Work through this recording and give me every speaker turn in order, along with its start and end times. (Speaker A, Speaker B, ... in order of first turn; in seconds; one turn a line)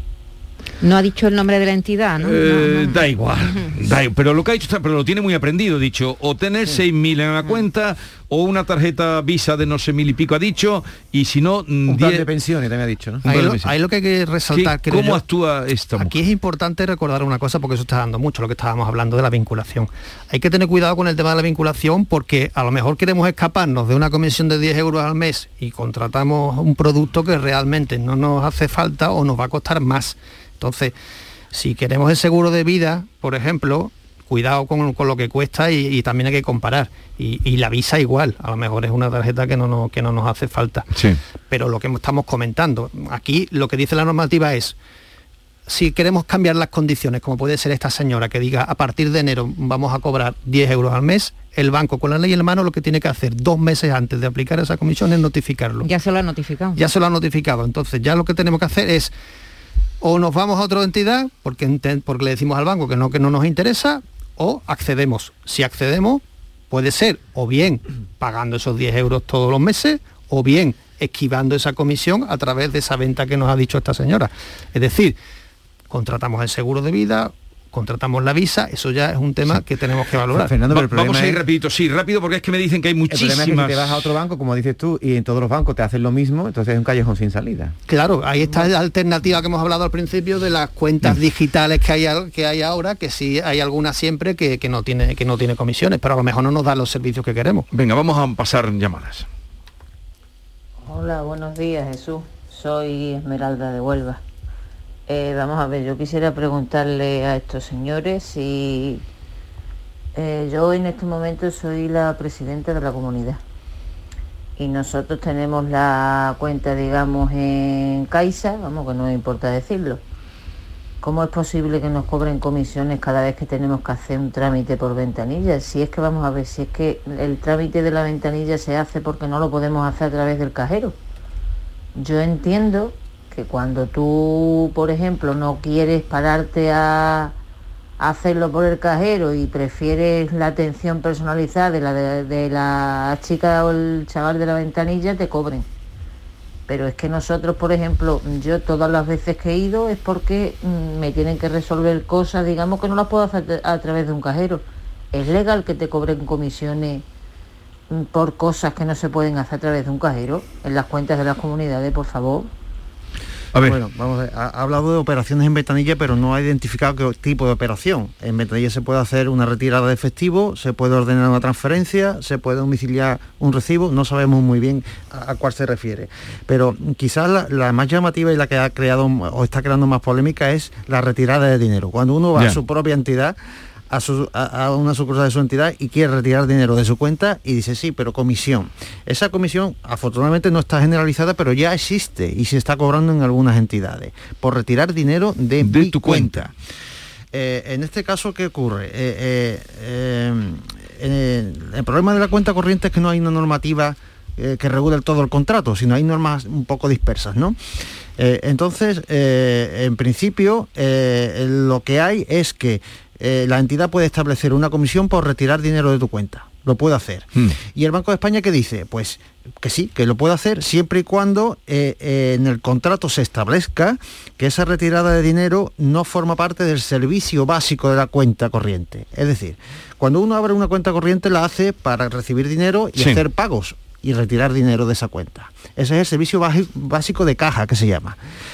Speaker A: 0.8-3.7
Speaker B: 2.2-12.3
Speaker C: 11.9-13.2
Speaker B: 13.2-13.7
Speaker D: 13.2-15.2
Speaker B: 14.5-16.2
Speaker D: 16.0-30.9
Speaker D: 31.5-40.9
Speaker B: 40.9-41.2
Speaker D: 41.5-44.8
Speaker D: 45.7-55.9
Speaker A: 55.8-56.8
Speaker D: 56.8-59.1
Speaker D: 60.0-75.2
Speaker D: 75.9-80.6
Speaker C: 80.3-81.4
Speaker B: 80.7-84.1
Speaker C: 83.1-87.7
Speaker D: 87.9-97.7
Speaker B: 97.7-99.3
Speaker E: 100.8-104.2
Speaker E: 105.1-109.0
Speaker E: 110.1-113.4
Speaker E: 114.6-120.0
Speaker E: 121.0-130.9
Speaker E: 132.0-137.3
Speaker E: 138.0-145.6
Speaker E: 146.7-157.0
Speaker E: 157.9-162.5
Speaker F: 163.6-183.3
Speaker F: 183.9-196.5
Speaker B: 195.6-196.5
Speaker F: 197.3-207.6
Speaker F: 208.2-238.2